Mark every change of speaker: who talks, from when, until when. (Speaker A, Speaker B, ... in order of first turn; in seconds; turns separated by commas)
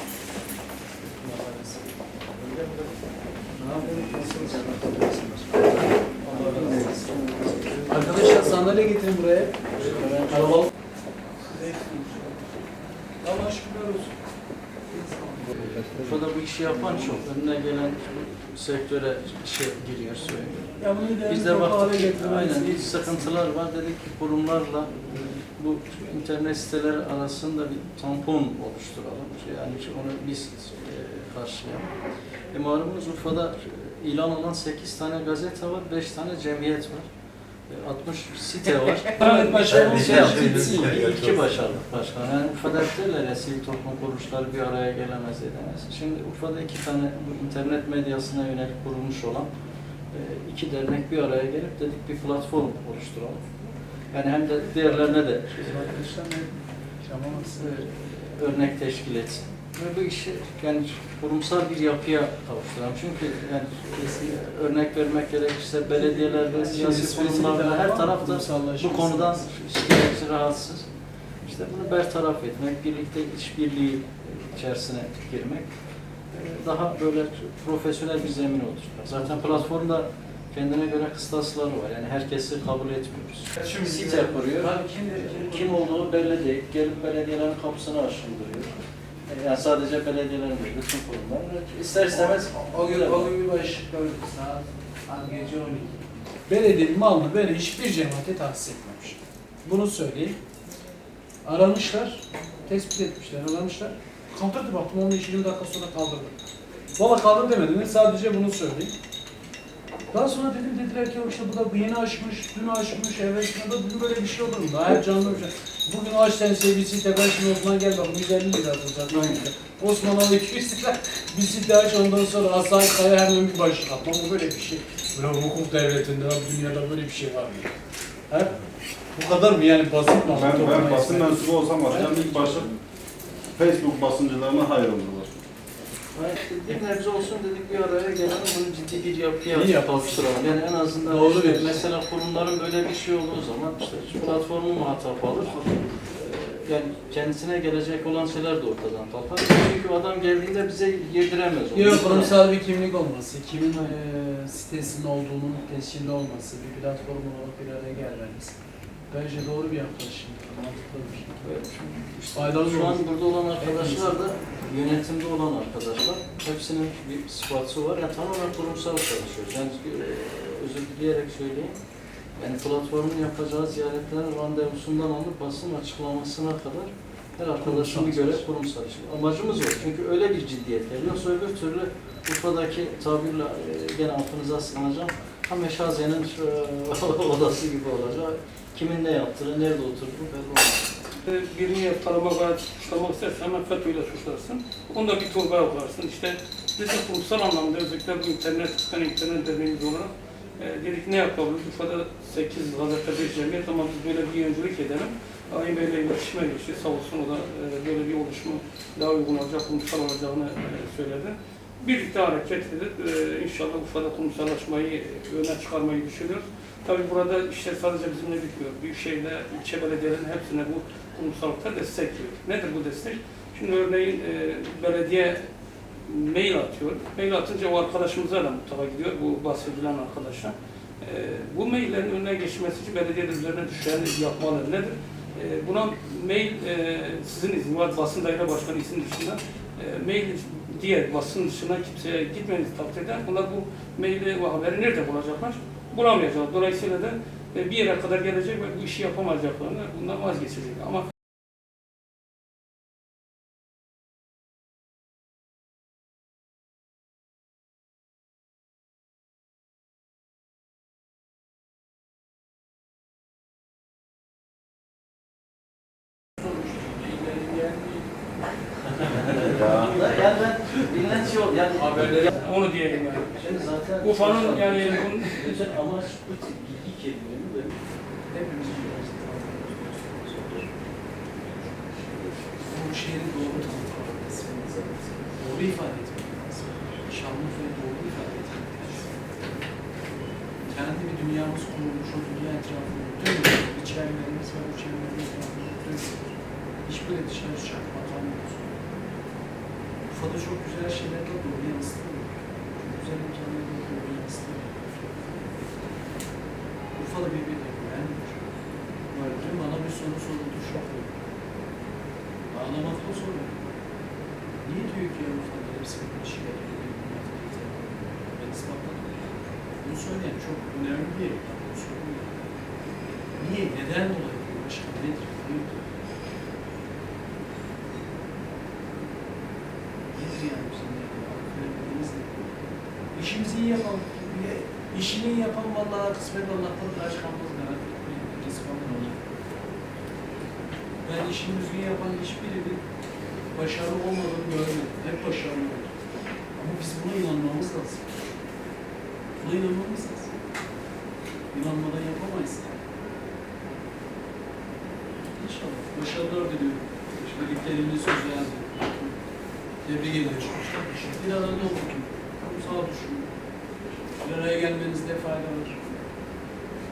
Speaker A: 1.0-2.0, Speaker B: 3.5-8.8, Speaker A: 3.6-5.3, Speaker A: 6.2-7.0, Speaker A: 7.9-10.7, Speaker B: 9.7-10.6, Speaker A: 11.4-12.4, Speaker A: 13.2-14.2, Speaker A: 14.9-15.8, Speaker B: 15.5-31.9, Speaker A: 20.8-23.3, Speaker B: 32.5-37.0, Speaker B: 37.7-49.5, Speaker A: 39.2-41.0, Speaker C: 39.2-39.7, Speaker D: 40.2-41.1, Speaker B: 50.1-53.4, Speaker B: 54.1-56.1, Speaker A: 54.9-57.8, Speaker B: 57.5-70.9, Speaker A: 64.0-64.3, Speaker A: 65.9-69.5, Speaker B: 71.4-75.7, Speaker B: 76.3-88.7, Speaker A: 83.5-86.4, Speaker B: 89.3-93.3, Speaker A: 92.1-100.4, Speaker A: 101.4-106.3, Speaker A: 107.0-108.9, Speaker A: 110.1-127.7, Speaker B: 119.1-119.4, Speaker A: 128.3-128.6, Speaker A: 129.1-132.7, Speaker D: 130.3-132.7, Speaker D: 133.5-135.3, Speaker B: 136.1-152.4, Speaker A: 139.5-140.5, Speaker A: 141.0-141.9, Speaker A: 151.7-158.6, Speaker A: 159.1-161.6, Speaker B: 161.4-171.8, Speaker A: 162.3-164.3, Speaker B: 172.4-191.0, Speaker A: 177.6-178.4, Speaker C: 191.2-225.5, Speaker C: 226.1-251.1, Speaker A: 266.4-268.1, Speaker A: 269.1-269.8, Speaker B: 269.4-272.4, Speaker D: 269.4-270.1, Speaker A: 271.8-272.4, Speaker C: 272.3-275.6, Speaker B: 273.3-277.8, Speaker A: 278.3-280.8, Speaker A: 281.4-289.2, Speaker A: 290.6-296.3, Speaker A: 296.8-298.9, Speaker A: 300.1-305.8, Speaker A: 306.9-308.6, Speaker A: 309.1-311.2, Speaker A: 312.5-313.7, Speaker A: 314.6-322.4, Speaker A: 323.3-325.9, Speaker A: 330.1-332.6, Speaker A: 333.1-339.2, Speaker A: 341.0-342.8, Speaker A: 343.5-346.0, Speaker A: 346.5-348.3, Speaker A: 349.4-350.3, Speaker A: 351.5-352.8, Speaker A: 355.2-359.2, Speaker A: 359.8-363.3, Speaker A: 364.1-366.0